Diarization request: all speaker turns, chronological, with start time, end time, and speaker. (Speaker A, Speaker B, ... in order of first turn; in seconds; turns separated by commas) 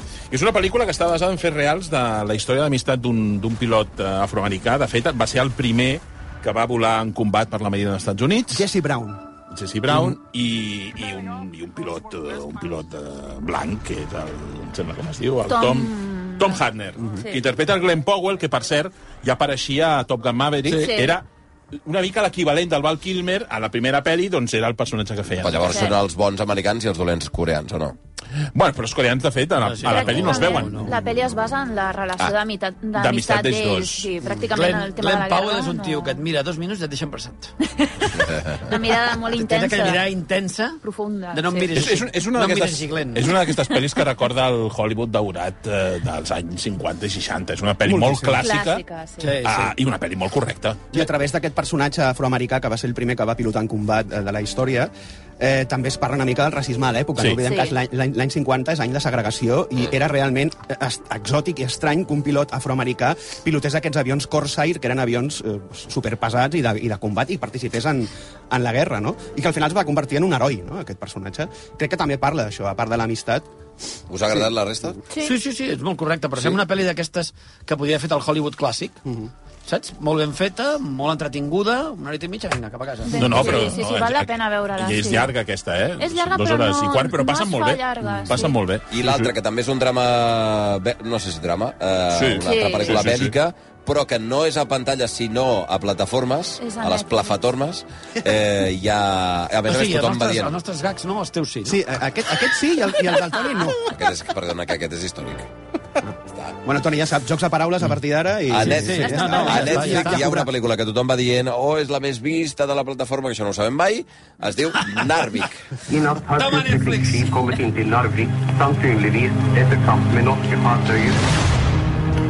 Speaker A: 0.3-8.7, Speaker B: 8.5-9.2, Speaker A: 9.5-21.3, Speaker B: 9.9-10.2, Speaker C: 15.5-16.6, Speaker C: 20.7-21.2, Speaker A: 21.8-25.9, Speaker D: 25.4-28.0, Speaker C: 25.7-26.0, Speaker A: 28.5-30.9, Speaker E: 29.6-31.0, Speaker C: 29.8-36.2, Speaker A: 33.0-34.1, Speaker E: 34.4-37.5, Speaker C: 37.6-40.0, Speaker D: 38.2-38.6, Speaker E: 39.2-40.8, Speaker C: 40.8-41.9, Speaker E: 41.3-43.4, Speaker A: 41.8-48.8, Speaker B: 47.9-48.5, Speaker C: 48.4-49.4, Speaker E: 49.2-49.7, Speaker A: 49.4-51.0, Speaker B: 50.9-73.5, Speaker C: 57.4-57.8, Speaker D: 74.1-75.0, Speaker C: 75.1-75.4, Speaker E: 75.2-79.0, Speaker E: 79.7-83.7, Speaker C: 83.1-85.3, Speaker A: 83.2-89.3, Speaker C: 86.0-88.6, Speaker D: 88.9-100.6, Speaker A: 92.1-93.4, Speaker C: 92.4-93.0, Speaker C: 96.6-97.4, Speaker E: 99.7-101.8, Speaker B: 101.7-103.9, Speaker D: 103.8-105.5, Speaker D: 106.3-106.6, Speaker B: 106.6-110.5, Speaker D: 108.5-115.7, Speaker E: 108.6-110.3, Speaker F: 115.9-121.2, Speaker E: 116.3-117.4